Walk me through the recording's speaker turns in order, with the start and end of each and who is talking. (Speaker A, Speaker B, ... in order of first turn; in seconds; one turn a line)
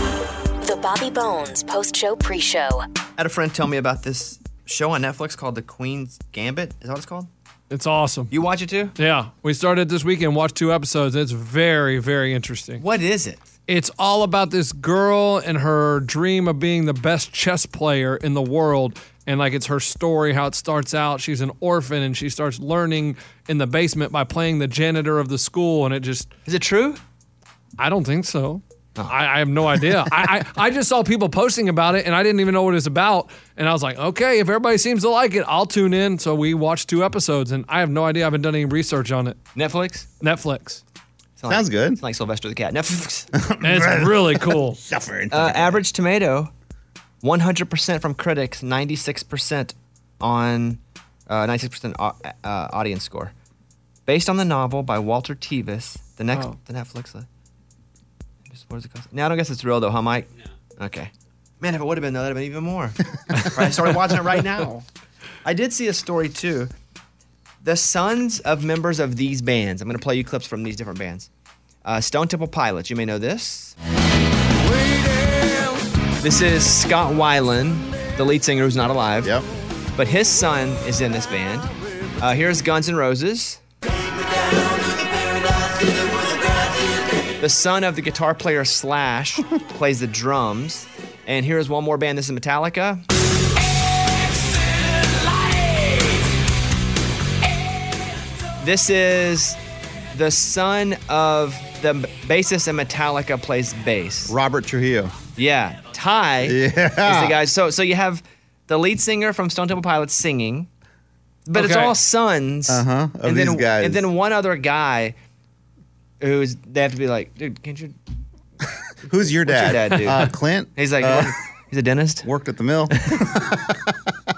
Speaker A: 0.6-2.8
Speaker B: 3.2-7.3
Speaker C: 7.7-8.3
Speaker B: 8.3-8.9
Speaker C: 9.0-12.8
Speaker B: 12.8-13.4
Speaker C: 13.7-26.3
Speaker B: 26.4-27.0
Speaker C: 27.8-39.4
Speaker B: 39.5-40.0
Speaker C: 40.2-40.8
Speaker B: 41.4-43.3
Speaker D: 41.5-42.0
Speaker D: 43.3-45.8
Speaker C: 43.6-44.8
Speaker B: 45.3-46.5
Speaker B: 47.2-53.3
Speaker B: 54.0-57.2
Speaker B: 58.5-64.8
Speaker B: 65.4-66.7
Speaker B: 67.6-71.3
Speaker B: 71.8-73.7
Speaker B: 76.2-79.3
Speaker B: 80.0-81.7
Speaker B: 82.2-83.6
Speaker B: 87.4-93.0
Speaker B: 98.6-99.6
Speaker B: 100.1-104.3
Speaker D: 104.3-105.1
Speaker B: 105.3-110.7
Speaker D: 106.4-107.4
Speaker B: 111.5-115.1
Speaker C: 111.5-111.9
Speaker D: 112.7-114.0
Speaker B: 116.2-117.9
Speaker D: 119.0-121.3
Speaker B: 119.4-122.3
Speaker D: 122.2-124.1